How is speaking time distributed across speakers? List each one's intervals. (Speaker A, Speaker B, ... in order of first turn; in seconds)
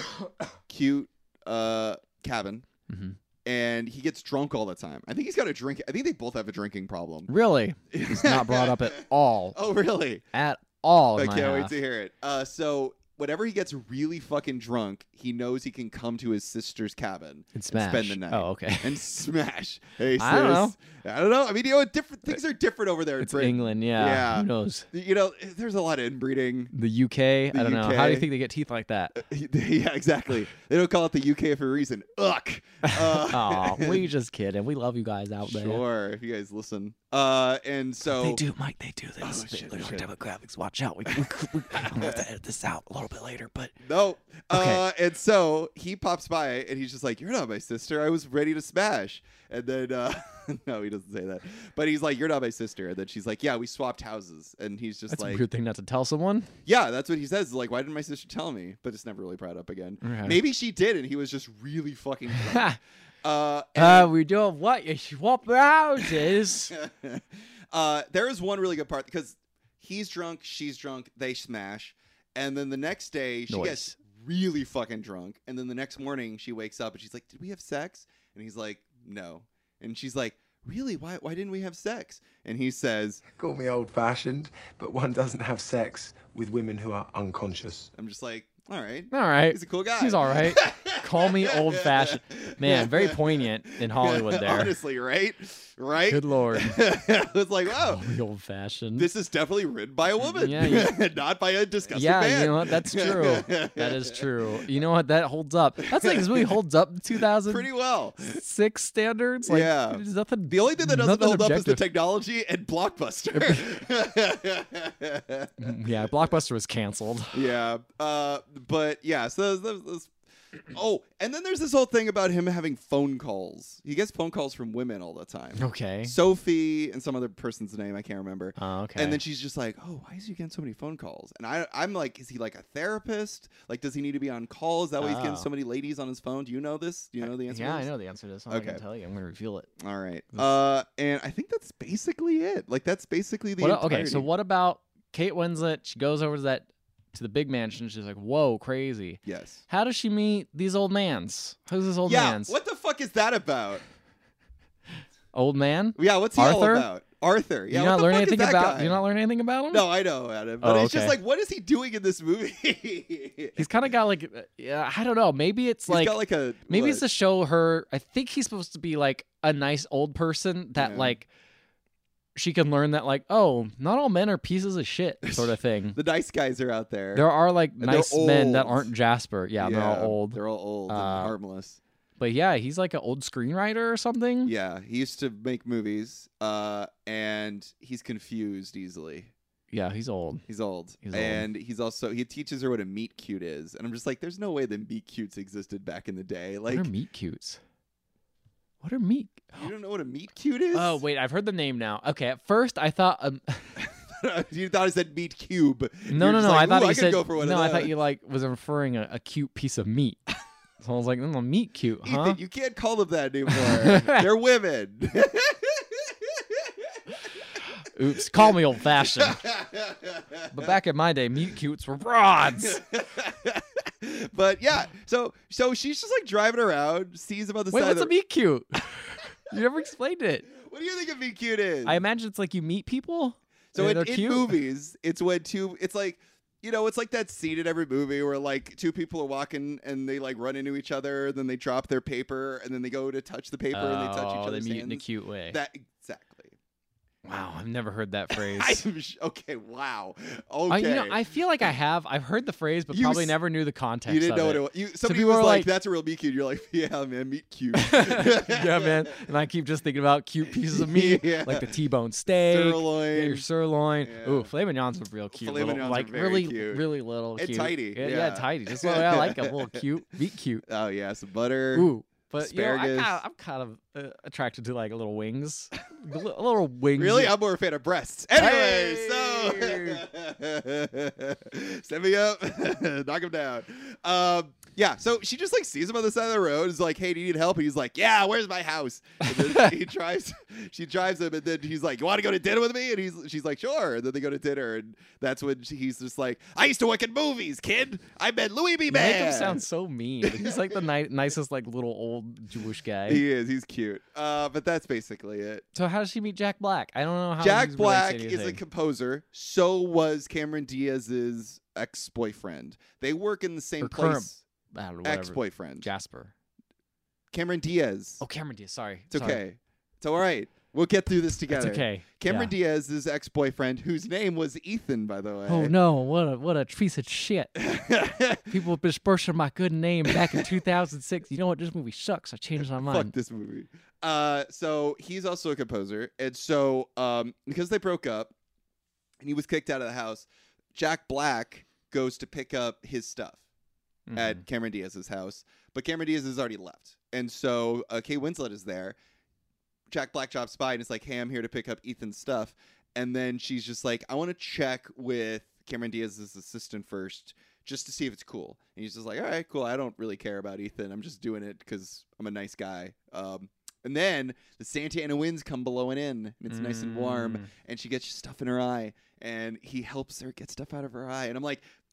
Speaker A: 0.7-2.6, 3.5-7.3, 7.9-9.0, 9.5-10.2, 11.2-26.7, 27.5-28.3, 29.1-34.0, 35.4-38.4, 39.2-40.1, 41.1-42.2, 43.8-55.4, 56.7-64.1, 66.7-83.2, 88.0-98.1, 99.0-104.2, 105.9-106.5, 107.4-108.4, 109.5-115.8, 117.3-120.1, 120.7-137.9, 138.5-138.8, 139.8-144.3, 149.2-149.6, 152.1-153.8, 156.0-159.0, 159.7-163.8, 165.9-167.0, 170.8-171.2, 175.2-177.3, 177.8-178.9, 179.6-181.8, 184.4-189.3, 190.5-196.9, 199.5-201.0, 203.8-207.9, 212.0-216.7, 218.3-220.7, 222.6-228.1, 230.5-232.0, 233.7-246.6, 248.3-251.2, 252.9-253.3, 254.1-259.2, 260.7-261.7, 262.4-263.5, 264.0-264.5, 265.3-266.9, 267.4-269.8, 270.7-273.2, 277.0-299.6, 300.2-300.8, 303.1-305.6, 307.4-314.4, 315.0-315.9, 317.3-318.2, 319.1-325.7, 327.6-328.5, 330.1-330.4, 332.7-338.3, 339.2-343.4, 344.1-349.0, 349.9-371.6
Speaker B: 2.9-3.2, 7.3-9.6, 10.3-11.8, 17.5-19.0, 20.2-20.8, 23.2-24.9, 26.7-29.1, 32.9-35.8, 38.0-43.7, 44.5-44.8, 55.1-56.5, 60.0-60.4, 62.3-62.8, 63.8-66.7, 73.5-74.0, 89.1-94.8, 96.1-96.8, 97.7-99.1, 100.2-101.0, 101.9-107.7, 108.2-111.8, 113.3-113.7, 115.6-117.4, 125.6-126.1, 128.6-129.2, 135.0-135.5, 137.2-139.7, 143.6-152.6, 155.3-156.9, 157.7-159.9, 160.6-161.2, 163.6-171.3, 172.3-176.0, 177.2-181.3, 182.2-184.5, 189.7-190.5, 191.0-191.4, 196.7-197.6, 198.8-199.7, 200.7-203.8, 206.1-210.2, 210.8-212.4, 213.5-214.3, 217.8-219.4, 220.5-222.8, 227.7-230.5, 231.8-234.6, 243.7-245.6, 247.2-248.8, 250.7-255.7, 257.8-270.6, 271.7-277.4, 278.4-280.0, 289.3-289.7, 298.9-303.2, 305.8-308.6, 313.8-316.3, 318.2-319.4, 321.5-322.5, 325.5-327.6, 328.5-333.1, 344.1-344.4, 366.5-367.5
Speaker C: 83.4-87.9